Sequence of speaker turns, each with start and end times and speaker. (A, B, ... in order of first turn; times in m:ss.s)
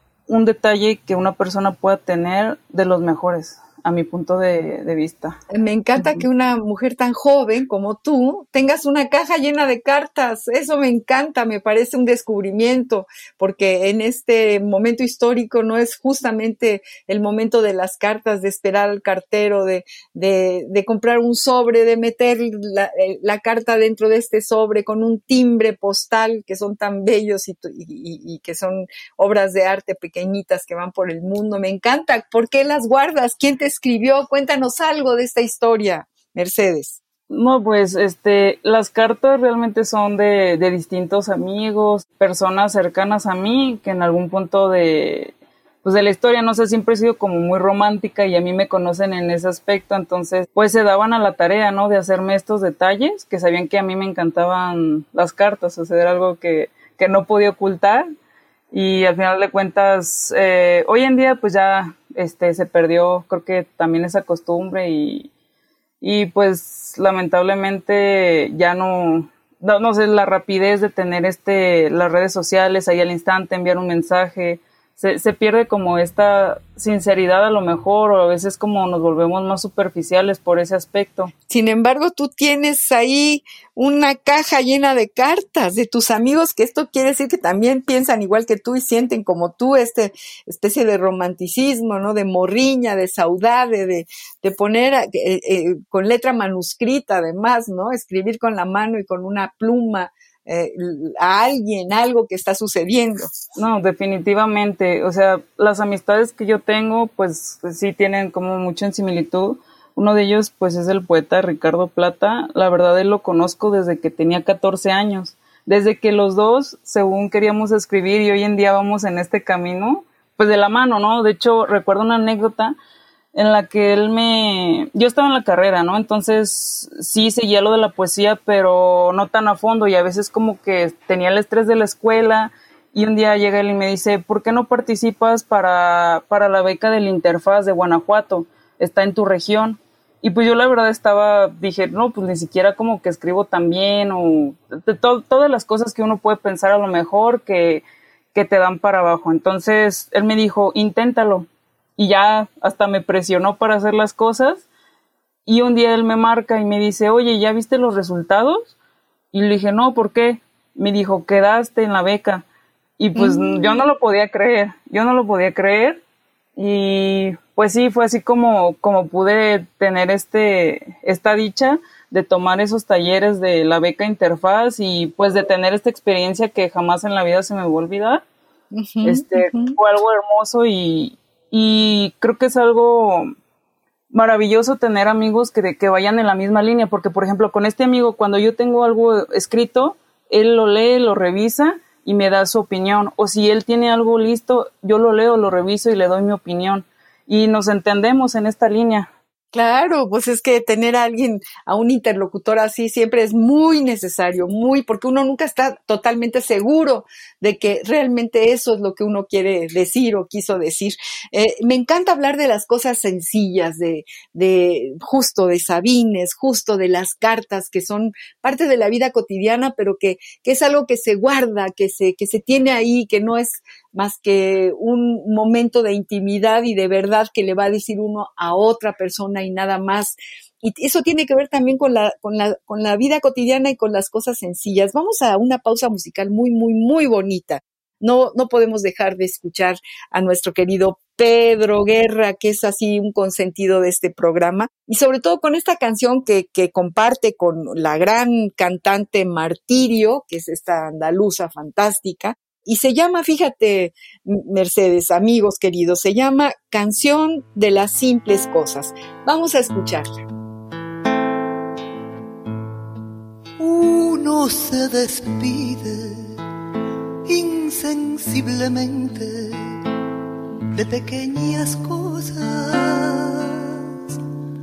0:00.3-0:05.4 A
0:05.5-0:37.0 B
0:06.0-0:06.2 A
0:37.3-0:45.3 A
0:45.8-0:58.1 A
0:58.7-1:05.3 A
1:06.0-1:21.3 A
1:21.5-1:43.3 B
1:43.6-2:02.8 A
2:03.3-2:34.6 A
2:35.4-2:38.7 A
2:39.3-2:42.4 A
2:43.0-2:46.0 A
2:43.1-2:43.8 B
2:46.6-2:58.2 A
2:58.7-2:59.8 B
2:59.0-3:03.3 A
3:04.1-3:19.1 A
3:19.5-4:20.1 B
4:23.6-4:26.4 C
4:27.2-4:29.8 C
4:30.7-4:34.2 C